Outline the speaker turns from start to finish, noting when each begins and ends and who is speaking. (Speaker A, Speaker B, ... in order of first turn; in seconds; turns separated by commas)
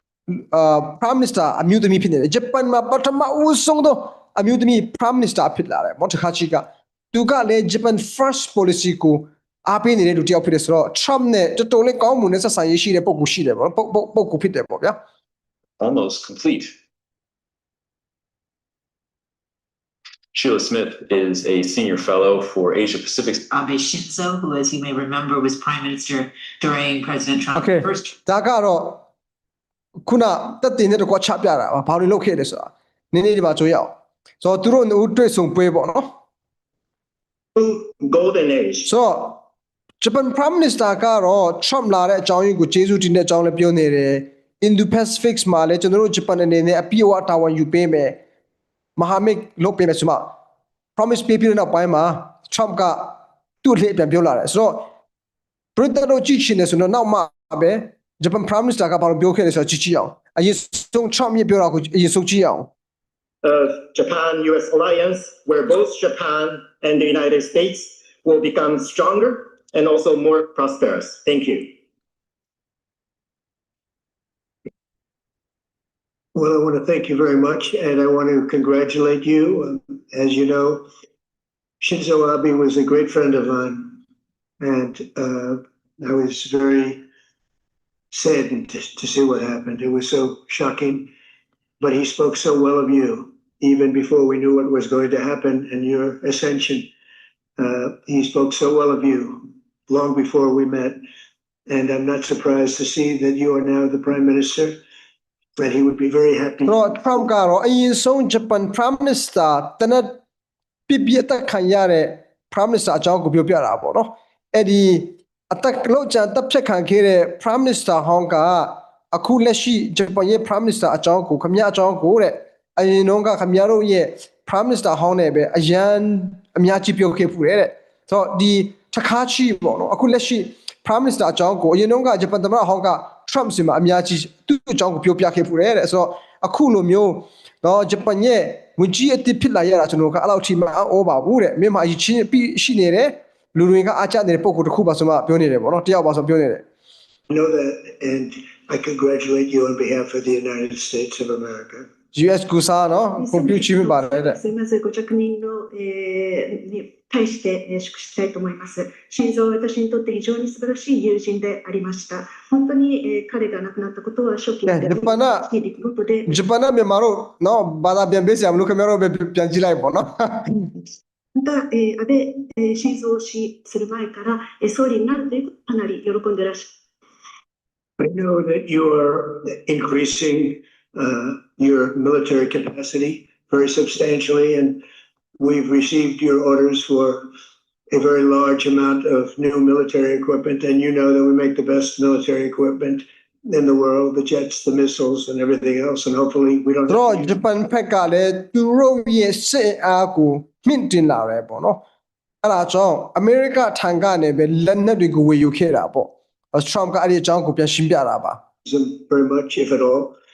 Speaker A: 0.3-15.0, Speaker B: 15.8-16.7, Speaker B: 20.3-23.5, Speaker C: 23.5-28.2, Speaker A: 27.5-29.0, Speaker A: 30.1-36.1, Speaker D: 37.5-38.9, Speaker A: 38.8-39.4, Speaker A: 40.0-48.2, Speaker A: 49.0-50.3, Speaker A: 51.0-54.9, Speaker A: 55.8-62.7, Speaker D: 63.4-71.7, Speaker E: 76.3-80.8, Speaker E: 81.8-84.0, Speaker E: 84.6-87.0, Speaker E: 88.1-91.1, Speaker E: 91.8-96.9, Speaker E: 97.6-101.0, Speaker E: 101.7-104.8, Speaker E: 105.6-107.3, Speaker A: 106.7-110.2, Speaker A: 110.9-146.6, Speaker E: 147.3-151.9, Speaker A: 152.1-154.4, Speaker F: 153.1-166.4, Speaker A: 164.7-165.5, Speaker A: 166.2-170.7, Speaker F: 171.3-176.7, Speaker E: 178.0-184.8, Speaker E: 185.4-187.3, Speaker E: 187.9-197.4, Speaker A: 196.9-201.8, Speaker A: 202.4-208.4, Speaker E: 208.6-210.2